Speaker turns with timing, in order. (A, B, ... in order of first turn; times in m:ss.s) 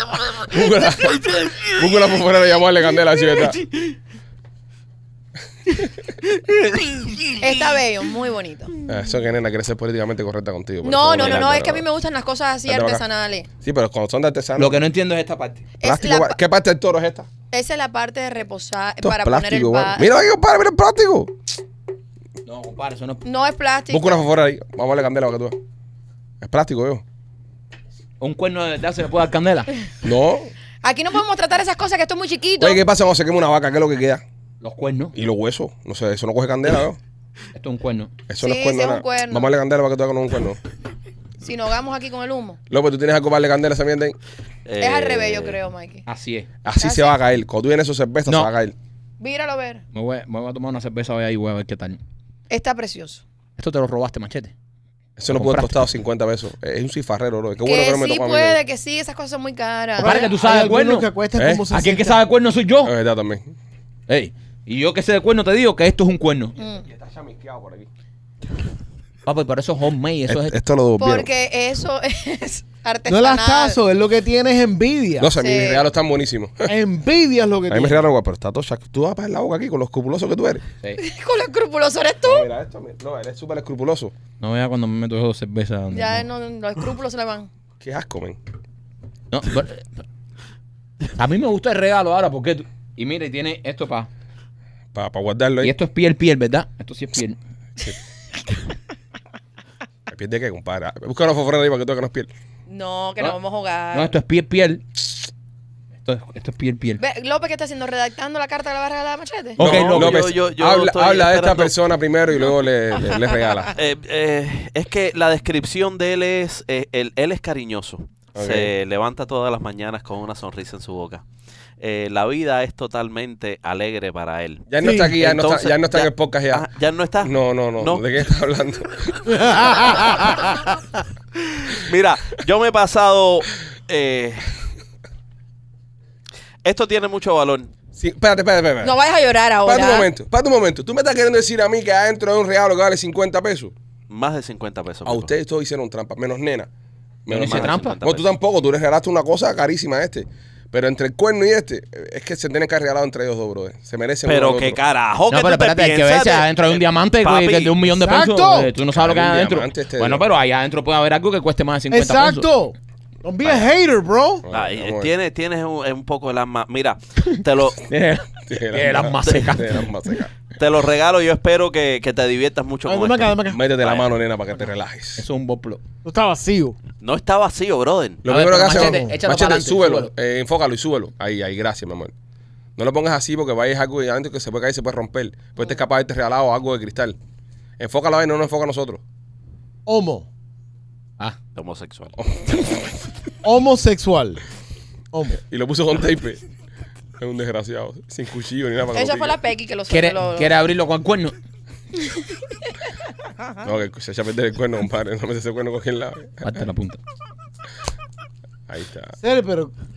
0:00.5-0:03.6 A
0:07.4-0:08.8 B
0:08.9-0:11.8 A
0:10.8-0:13.5 B
0:11.2-0:11.6 C
0:12.7-0:13.0 A
0:13.6-0:14.8 A
0:14.6-0:15.7 D
0:15.8-0:16.4 B
0:15.8-0:17.3 A
0:17.5-0:20.1 B
0:19.0-0:21.3 A
0:22.4-0:23.2 D
0:23.2-0:24.2 B
0:23.9-0:25.6 A
0:26.4-0:27.0 A
0:28.2-0:29.7 D
0:30.0-0:30.5 A
0:30.8-0:32.8 B
0:32.6-0:34.2 A
0:34.6-0:35.1 D
0:35.1-0:37.0 A
0:37.6-0:38.1 D
0:38.3-0:40.6 A
0:38.4-0:39.5 B
0:41.4-0:42.6 B
0:42.7-0:44.2 A
0:44.7-0:45.6 C
0:44.8-0:46.1 B
0:46.1-0:46.5 D
0:46.6-0:48.7 A
0:46.8-0:47.2 B
0:49.2-0:49.8 B
0:49.9-0:52.0 D
0:52.5-0:53.2 B
0:53.6-0:54.5 D
0:55.2-0:58.6 A
0:55.3-0:55.8 D
0:57.6-1:00.2 B
1:00.0-1:01.1 D
1:00.0-1:02.2 E
1:01.4-1:01.7 A
1:01.7-1:02.9 D
1:02.8-1:03.6 A
1:04.1-1:06.6 D
1:06.6-1:06.8 B
1:06.6-1:07.9 A
1:09.2-1:10.6 D
1:10.3-1:11.3 A
1:11.0-1:13.8 B
1:13.1-1:15.3 E
1:15.2-1:16.7 A
1:15.4-1:15.9 B
1:16.7-1:18.0 E
1:17.7-1:20.6 A
1:21.0-1:22.5 B
1:22.2-1:24.1 A
1:24.4-1:26.2 D
1:25.9-1:27.5 B
1:27.8-1:28.4 A
1:29.3-1:29.9 D
1:31.2-1:34.1 D
1:34.9-1:35.8 A
1:35.6-1:37.4 D
1:40.1-1:42.3 A
1:42.7-1:44.1 B
1:43.9-1:45.3 D
1:46.0-1:47.0 D
1:47.0-1:49.6 B
1:49.6-1:53.7 A
1:49.6-1:50.2 D
1:49.6-1:51.7 C
1:53.8-2:01.2 C
1:58.4-1:58.7 A
2:01.8-2:08.0 C
2:04.7-2:06.6 A
2:04.8-2:05.1 E
2:07.2-2:09.3 A
2:09.3-2:10.6 E
2:11.7-2:14.4 C
2:16.6-2:17.7 C
2:18.0-2:19.0 A
2:18.8-2:20.1 B
2:19.6-2:23.7 A
2:24.1-2:25.3 C
2:25.1-2:26.7 A
2:27.3-2:34.8 A
2:27.3-2:28.0 D
2:27.3-2:28.2 C
2:34.3-2:37.8 C
2:35.3-2:42.5 D
2:38.0-2:38.7 E
2:38.9-2:40.2 A
2:41.9-2:44.4 E
2:44.4-2:45.1 A
2:44.5-2:47.8 C
2:47.9-2:49.9 D
2:48.4-2:50.3 A
2:49.2-2:49.5 C
2:50.6-2:54.1 C
2:52.9-2:53.6 E
2:53.5-2:55.2 A
2:55.2-2:55.8 D
2:56.0-2:56.8 E
2:57.0-2:58.2 C
2:58.2-3:00.1 D
2:58.2-3:02.1 A
2:58.7-2:59.2 E
3:02.8-3:07.2 A
3:07.8-3:09.0 A
3:09.9-3:10.3 E
3:11.6-3:12.2 C
3:13.4-3:14.4 E
3:15.1-3:15.4 E
3:15.5-3:16.4 A
3:17.2-3:19.4 A
3:18.9-3:20.5 B
3:19.9-3:21.3 D
3:23.6-3:26.6 A
3:26.4-3:27.0 D
3:28.7-3:29.2 A
3:29.2-3:29.7 E